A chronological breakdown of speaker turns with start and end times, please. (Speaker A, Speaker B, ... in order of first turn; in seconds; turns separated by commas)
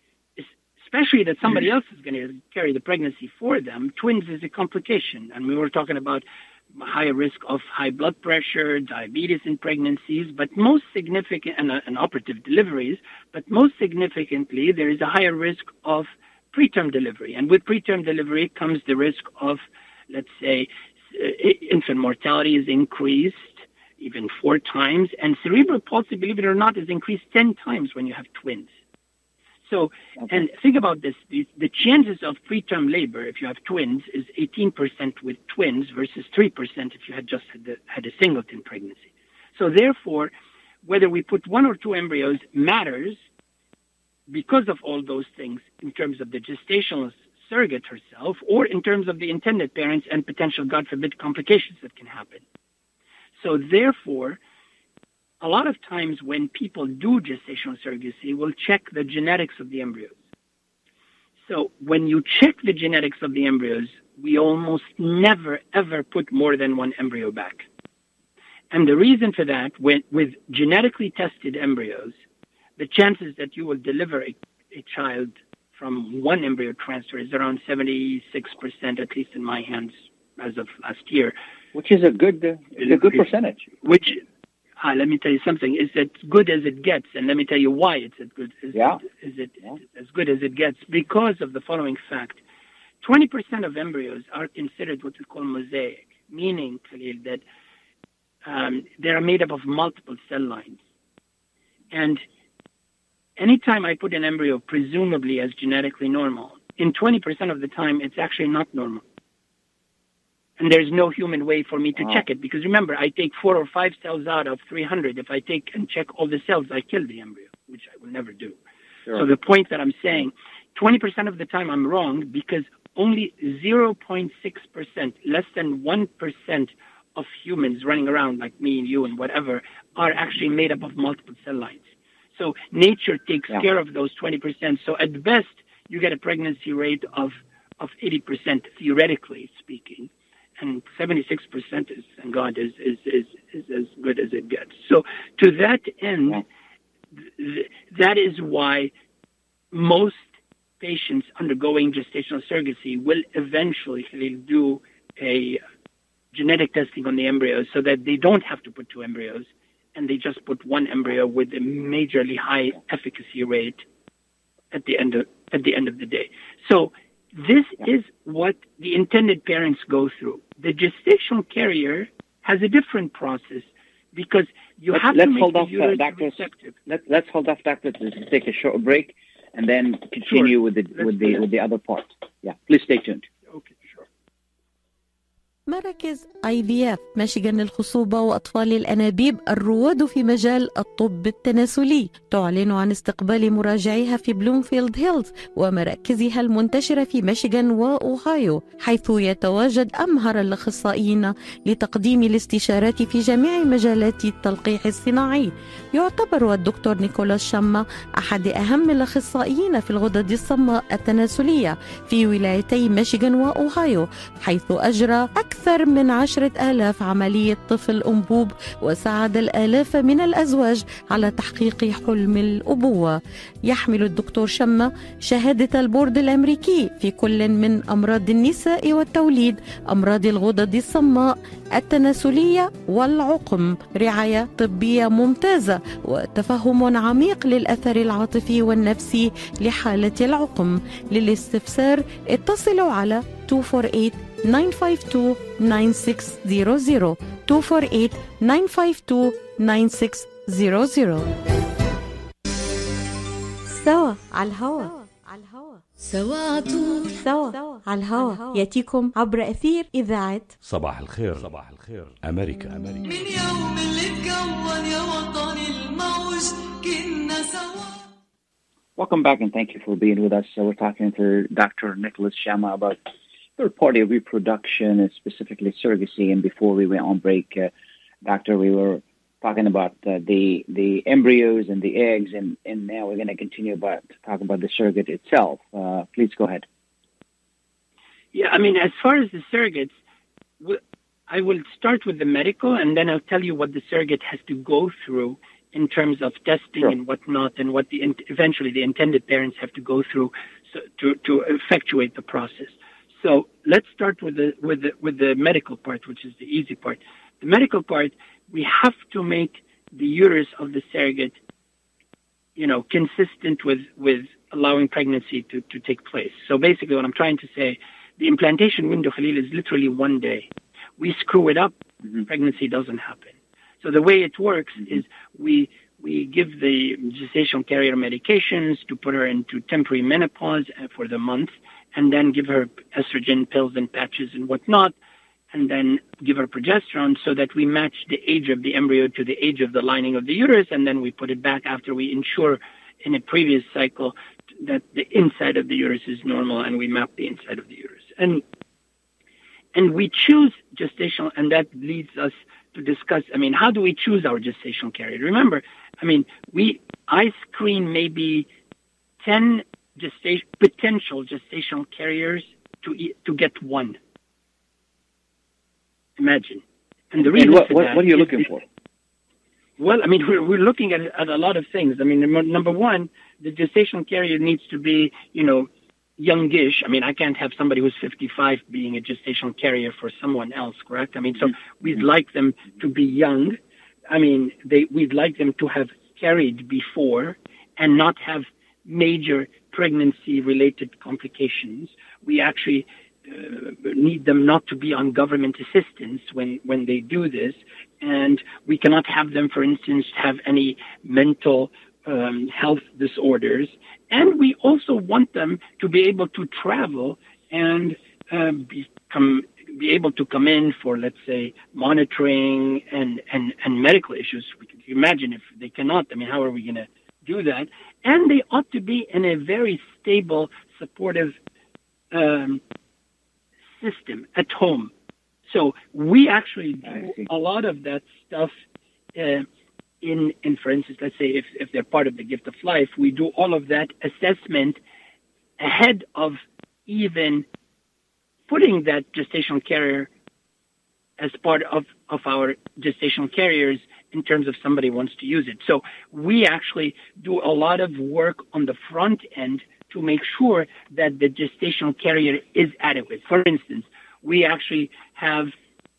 Speaker A: 0.4-6.2, Speaker A: 6.7-28.7, Speaker A: 29.7-40.3, Speaker A: 40.9-43.2, Speaker A: 44.3-52.4, Speaker A: 53.4-54.4, Speaker A: 55.4-60.2, Speaker A: 61.5-67.7, Speaker A: 68.7-72.2, Speaker A: 72.8-81.3, Speaker B: 81.7-83.7, Speaker A: 82.8-83.2, Speaker A: 83.8-84.2, Speaker A: 84.8-92.4, Speaker B: 88.7-89.0, Speaker A: 93.0-97.4, Speaker A: 98.5-100.8, Speaker A: 101.9-102.2, Speaker A: 103.4-109.0, Speaker A: 110.6-118.6, Speaker A: 119.1-146.4, Speaker A: 147.2-148.9, Speaker A: 149.7-150.3, Speaker A: 150.8-155.6, Speaker A: 156.3-163.8, Speaker A: 164.7-176.8, Speaker B: 174.9-183.3, Speaker A: 180.2-181.4, Speaker A: 183.5-184.1, Speaker C: 185.7-251.3, Speaker C: 253.7-254.9, Speaker D: 256.0-257.2, Speaker C: 257.2-260.5, Speaker E: 260.6-263.1, Speaker D: 263.1-268.1, Speaker B: 269.0-273.0, Speaker B: 273.6-277.7, Speaker B: 278.2-286.6, Speaker A: 288.3-290.0, Speaker A: 290.6-311.4, Speaker A: 312.6-334.9, Speaker A: 335.5-348.4, Speaker A: 349.7-358.5, Speaker A: 359.2-364.0, Speaker A: 366.2-368.5, Speaker B: 367.2-368.6, Speaker A: 369.8-383.6, Speaker A: 384.1-421.4, Speaker A: 422.1-422.6, Speaker A: 423.8-424.9, Speaker A: 425.5-428.5, Speaker B: 426.9-427.2, Speaker A: 429.1-429.5, Speaker A: 430.0-434.8, Speaker A: 435.6-437.4, Speaker A: 438.5-440.1, Speaker A: 441.2-455.5